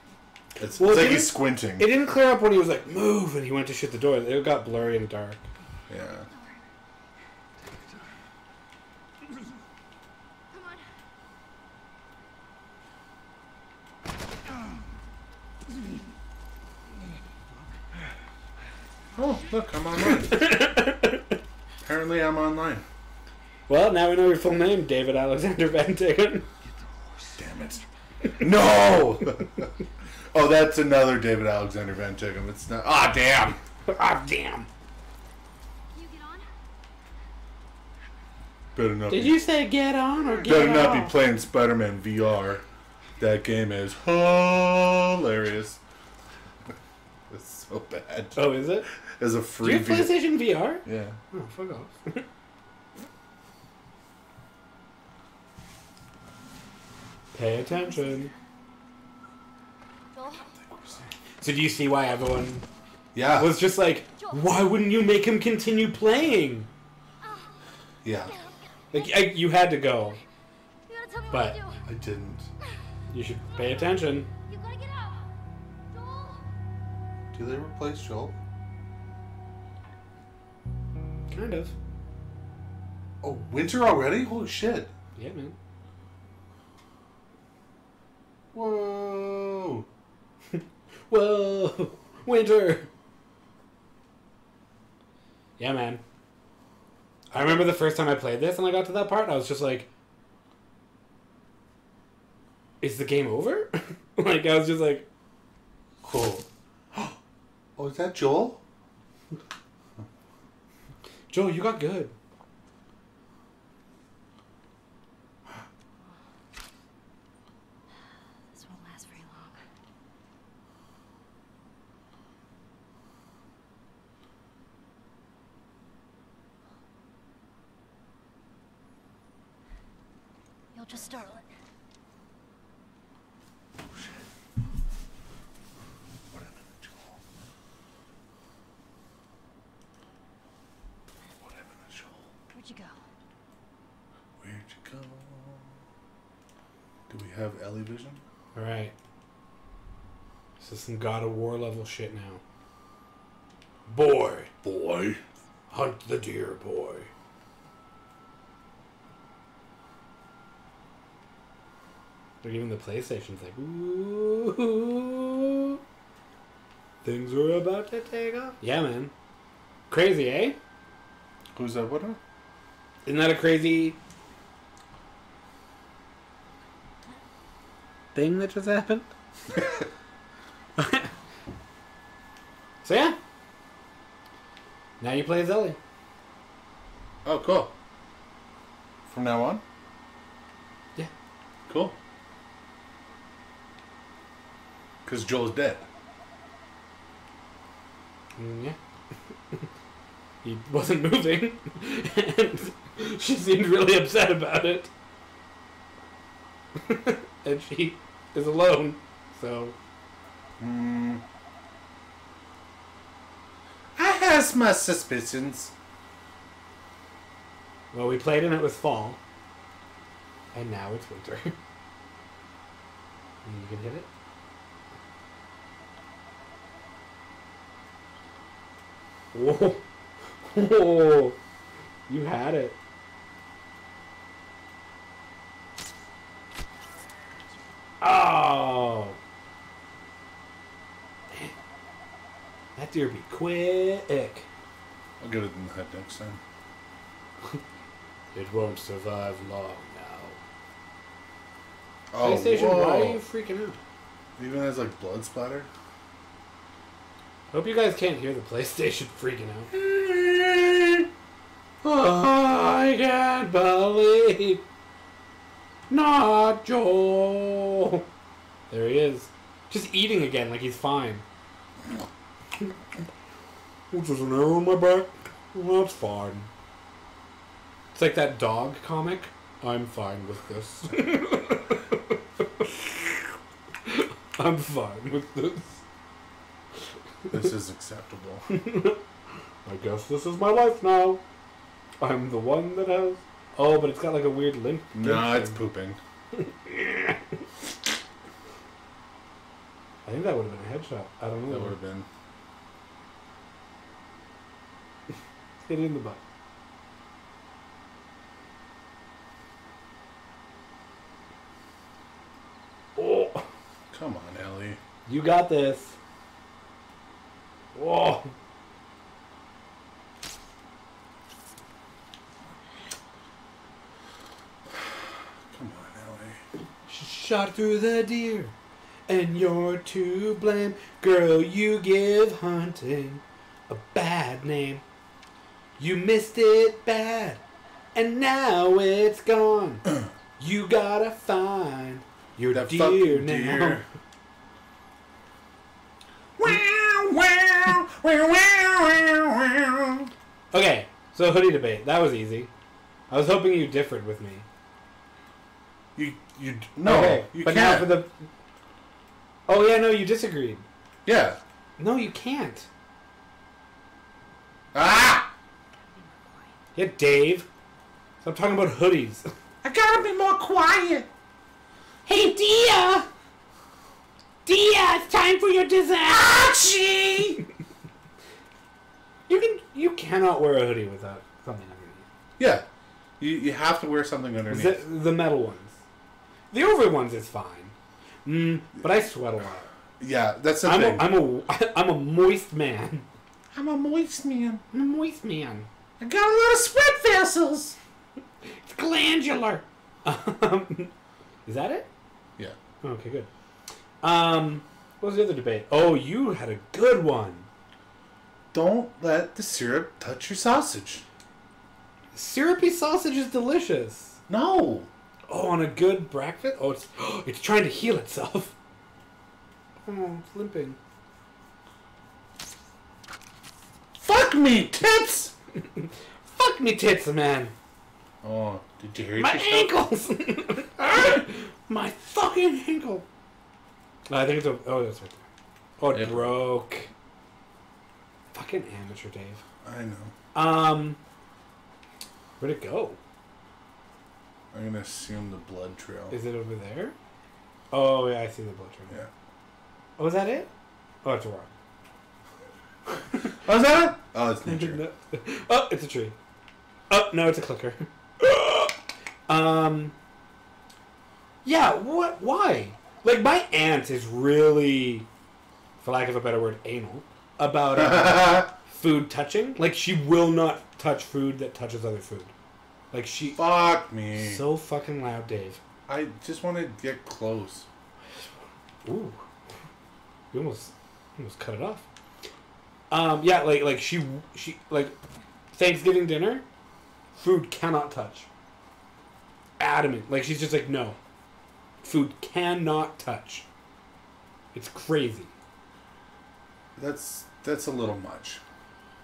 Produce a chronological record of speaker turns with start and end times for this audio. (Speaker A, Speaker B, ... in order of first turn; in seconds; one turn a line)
Speaker A: 0.6-1.9
Speaker B: 0.8-5.4
Speaker A: 5.9-6.3
Speaker C: 6.3-6.6
Speaker C: 10.5-10.9
Speaker A: 19.1-20.4
Speaker B: 20.0-21.4
Speaker A: 21.8-22.9
Speaker B: 23.7-26.5
Speaker A: 27.4-27.8
Speaker A: 28.4-29.7
Speaker A: 30.3-33.6
Speaker B: 33.9-34.7
Speaker C: 35.9-36.5
Speaker A: 38.8-39.5
Speaker B: 39.1-41.2
Speaker A: 40.5-42.6
Speaker A: 43.2-45.8
Speaker A: 47.3-50.1
Speaker B: 48.4-48.9
Speaker B: 49.6-52.2
Speaker A: 50.9-51.2
Speaker B: 57.3-58.3
Speaker C: 57.7-58.3
Speaker C: 60.1-60.5
Speaker A: 60.7-61.0
Speaker B: 61.4-62.6
Speaker A: 63.1-63.6
Speaker B: 63.4-66.7
Speaker C: 64.2-64.6
Speaker C: 67.2-67.6
Speaker A: 68.0-68.3
Speaker C: 68.2-69.3
Speaker B: 68.9-70.2
Speaker C: 70.9-71.8
Speaker A: 71.8-72.5
Speaker B: 73.1-74.3
Speaker C: 74.5-75.3
Speaker C: 75.9-76.5
Speaker A: 77.3-78.4
Speaker B: 81.3-81.7
Speaker A: 83.2-84.9
Speaker B: 85.2-85.5
Speaker A: 88.5-89.9
Speaker B: 90.5-92.9
Speaker B: 95.6-96.0
Speaker A: 97.3-97.7
Speaker B: 97.3-99.9
Speaker B: 102.8-105.1
Speaker A: 106.0-107.2
Speaker A: 107.8-108.6
Speaker B: 111.3-112.1
Speaker C: 118.5-119.6
Speaker C: 130.7-131.5
Speaker A: 136.3-137.2
Speaker A: 141.4-142.3
Speaker C: 142.5-142.9
Speaker A: 144.4-145.7
Speaker A: 147.1-148.2
Speaker B: 148.6-148.9
Speaker B: 150.6-152.4
Speaker B: 153.9-154.5
Speaker A: 154.6-155.2
Speaker B: 155.7-157.1
Speaker B: 162.4-165.8
Speaker B: 167.0-169.1
Speaker B: 169.9-170.6
Speaker A: 171.6-172.2
Speaker B: 173.1-174.0
Speaker B: 178.2-179.8
Speaker B: 180.8-181.1
Speaker B: 182.8-183.2
Speaker B: 185.0-185.8
Speaker A: 187.2-187.7
Speaker A: 189.1-189.6
Speaker A: 191.7-192.0
Speaker A: 195.1-195.9
Speaker B: 198.4-198.8
Speaker B: 200.4-204.9
Speaker B: 206.8-209.8
Speaker A: 210.6-211.2
Speaker A: 214.0-215.7
Speaker B: 217.9-219.2
Speaker B: 220.5-221.6
Speaker B: 223.4-224.1
Speaker B: 229.3-229.8
Speaker B: 230.5-231.4
Speaker B: 232.1-232.8
Speaker B: 238.0-239.2
Speaker B: 242.8-244.5
Speaker A: 245.2-246.4
Speaker B: 248.3-250.4
Speaker A: 252.1-253.2
Speaker B: 252.2-253.8
Speaker A: 254.4-255.7
Speaker B: 257.5-259.7
Speaker A: 259.7-261.1
Speaker B: 261.8-264.6
Speaker B: 265.9-268.1
Speaker B: 268.7-271.2
Speaker B: 273.9-276.5
Speaker B: 277.9-283.2
Speaker B: 283.9-285.8
Speaker A: 287.3-288.5
Speaker B: 288.5-289.0
Speaker B: 289.6-291.2
Speaker B: 292.0-295.6
Speaker A: 294.9-296.0
Speaker B: 296.4-297.2
Speaker B: 300.1-301.8
Speaker A: 301.5-302.1
Speaker B: 305.6-306.2
Speaker B: 313.0-313.5
Speaker A: 313.9-314.8
Speaker B: 315.1-316.0
Speaker B: 317.7-318.3
Speaker A: 324.7-326.4
Speaker B: 326.9-328.5
Speaker B: 329.1-334.8
Speaker B: 335.8-337.4
Speaker B: 337.9-339.9
Speaker B: 340.4-343.9
Speaker A: 342.5-343.9
Speaker A: 346.4-350.1
Speaker B: 350.5-352.5
Speaker B: 353.1-354.5
Speaker A: 356.0-357.9
Speaker B: 356.8-358.2
Speaker B: 359.5-360.7
Speaker A: 361.1-361.4
Speaker B: 361.8-362.7
Speaker A: 364.7-365.3
Speaker C: 365.9-366.5
Speaker B: 366.8-367.5
Speaker B: 368.2-369.3
Speaker A: 369.6-371.1
Speaker B: 372.1-373.1
Speaker B: 374.4-376.3
Speaker A: 376.1-377.4
Speaker B: 379.3-382.1
Speaker A: 382.4-382.7
Speaker A: 383.2-384.8
Speaker B: 384.5-385.8
Speaker B: 386.5-387.7
Speaker B: 388.2-389.7
Speaker A: 390.0-391.2
Speaker B: 390.6-393.1
Speaker A: 393.5-394.6
Speaker B: 394.7-395.7
Speaker A: 396.0-397.8
Speaker B: 398.6-400.9
Speaker B: 401.4-401.9
Speaker B: 402.8-403.3
Speaker B: 404.0-407.5
Speaker A: 408.5-411.0
Speaker B: 412.1-414.2
Speaker A: 414.3-414.9
Speaker B: 415.3-418.6
Speaker B: 419.9-420.8
Speaker A: 424.0-425.3
Speaker B: 425.7-427.5
Speaker A: 428.2-429.8
Speaker B: 429.2-433.1
Speaker B: 434.1-435.2
Speaker B: 435.8-436.9
Speaker A: 435.9-436.4
Speaker B: 438.3-439.4
Speaker A: 439.6-440.1
Speaker B: 440.3-441.0
Speaker B: 442.4-443.0
Speaker A: 444.5-446.1
Speaker B: 446.1-446.9
Speaker B: 447.7-449.0
Speaker B: 450.0-450.5
Speaker B: 451.0-451.5
Speaker A: 453.4-454.8
Speaker B: 454.4-456.2
Speaker B: 456.9-459.9
Speaker B: 461.4-465.1
Speaker B: 465.8-472.3
Speaker A: 467.8-468.5
Speaker B: 472.9-473.4
Speaker A: 473.4-474.4
Speaker B: 474.2-475.6
Speaker A: 475.9-477.7
Speaker B: 478.9-479.2
Speaker B: 480.3-481.9
Speaker B: 482.9-485.0
Speaker B: 485.5-486.4
Speaker B: 487.2-488.3
Speaker B: 489.6-491.0
Speaker B: 491.8-493.5
Speaker B: 494.5-495.3
Speaker A: 496.8-498.4